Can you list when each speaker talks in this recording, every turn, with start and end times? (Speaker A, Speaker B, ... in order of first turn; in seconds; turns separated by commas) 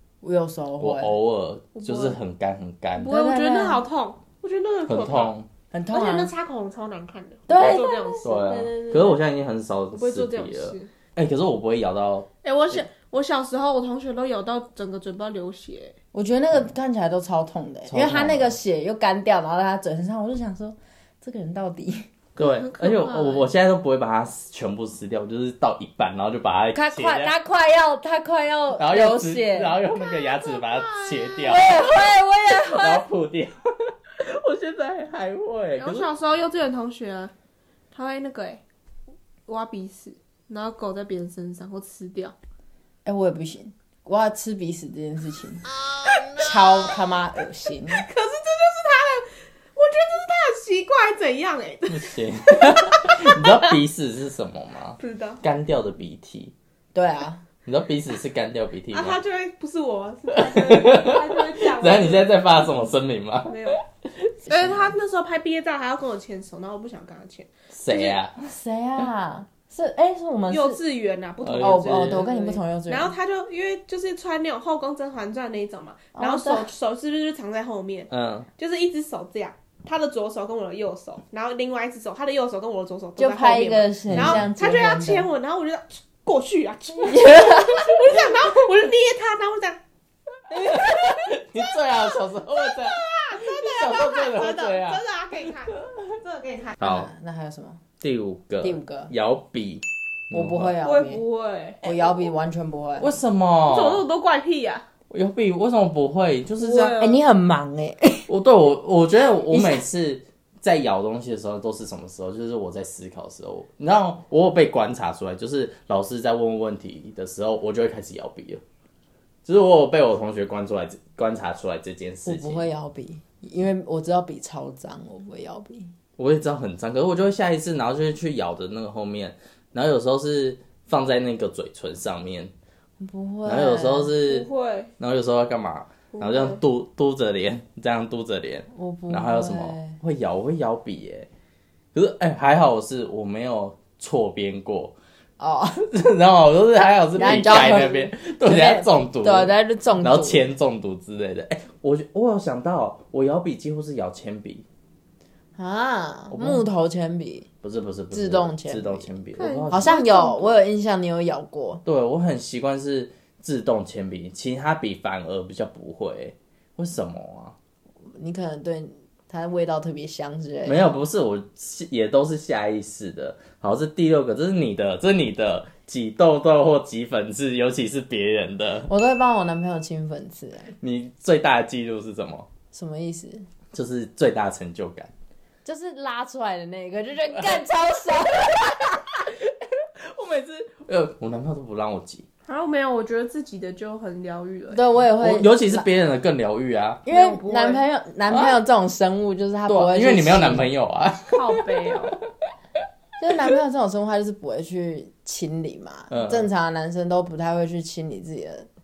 Speaker A: 0.2-1.1, Speaker B: 0.8-3.1, Speaker C: 1.7-2.2, Speaker C: 3.0-5.3, Speaker A: 3.0-3.8, Speaker B: 4.9-5.5, Speaker A: 5.7-6.3, Speaker C: 5.9-9.2, Speaker A: 7.5-8.3, Speaker B: 8.2-12.8, Speaker C: 9.9-10.9, Speaker C: 12.4-15.9, Speaker A: 16.1-22.1, Speaker B: 17.9-18.6, Speaker B: 22.4-27.3, Speaker C: 22.4-23.5, Speaker A: 26.7-29.8, Speaker B: 28.8-31.9, Speaker C: 29.9-31.5, Speaker A: 31.4-33.0, Speaker B: 32.7-36.1, Speaker C: 35.8-37.3, Speaker C: 37.9-38.6, Speaker C: 39.5-42.3, Speaker A: 43.0-45.7, Speaker C: 46.0-47.1, Speaker A: 46.4-48.1, Speaker C: 47.9-53.7, Speaker B: 51.9-56.5, Speaker C: 55.0-55.4, Speaker A: 56.9-57.4, Speaker B: 57.6-59.2, Speaker C: 58.9-62.4, Speaker B: 60.3-63.8, Speaker C: 63.5-63.8, Speaker B: 64.4-64.8, Speaker C: 64.5-68.2, Speaker B: 67.7-68.4, Speaker A: 68.4-70.8, Speaker C: 70.5-89.8, Speaker B: 71.4-72.3, Speaker A: 71.5-73.1, Speaker A: 76.1-76.7, Speaker B: 78.1-78.5, Speaker A: 83.2-85.3, Speaker B: 84.1-84.5, Speaker A: 87.1-87.9, Speaker B: 90.5-95.0, Speaker C: 90.6-91.3, Speaker C: 92.6-96.8, Speaker B: 96.8-97.1, Speaker A: 96.8-97.8, Speaker B: 98.0-100.8, Speaker A: 98.6-99.1, Speaker A: 100.3-101.2, Speaker C: 100.8-101.9, Speaker A: 101.8-103.1, Speaker B: 103.0-104.0, Speaker C: 103.7-104.8, Speaker B: 105.1-107.0, Speaker C: 106.6-107.2, Speaker A: 107.0-108.3, Speaker B: 108.3-118.6, Speaker A: 109.5-109.9, Speaker B: 119.4-122.7, Speaker A: 122.2-125.9, Speaker B: 126.2-132.5, Speaker A: 133.0-134.2, Speaker B: 133.4-141.3, Speaker C: 134.2-134.9, Speaker C: 136.1-136.6, Speaker A: 138.7-140.0, Speaker B: 141.9-144.9, Speaker A: 145.4-145.8, Speaker B: 145.9-154.7, Speaker A: 147.1-150.5, Speaker A: 155.6-157.5, Speaker B: 156.3-156.7, Speaker B: 157.6-160.0, Speaker A: 158.1-159.1, Speaker C: 159.4-160.5, Speaker A: 159.7-161.8, Speaker B: 161.8-167.6, Speaker A: 168.2-170.9, Speaker B: 170.6-178.9, Speaker A: 178.9-180.7, Speaker B: 180.8-182.5, Speaker A: 182.7-183.5, Speaker B: 183.7-185.1, Speaker A: 185.6-189.0, Speaker B: 188.4-192.2, Speaker C: 192.5-194.8, Speaker A: 194.7-195.9, Speaker B: 195.2-197.1, Speaker A: 197.1-200.7, Speaker C: 197.1-197.8, Speaker B: 198.3-198.6, Speaker B: 199.7-201.9, Speaker C: 201.3-202.2, Speaker A: 203.2-208.7, Speaker B: 206.1-206.5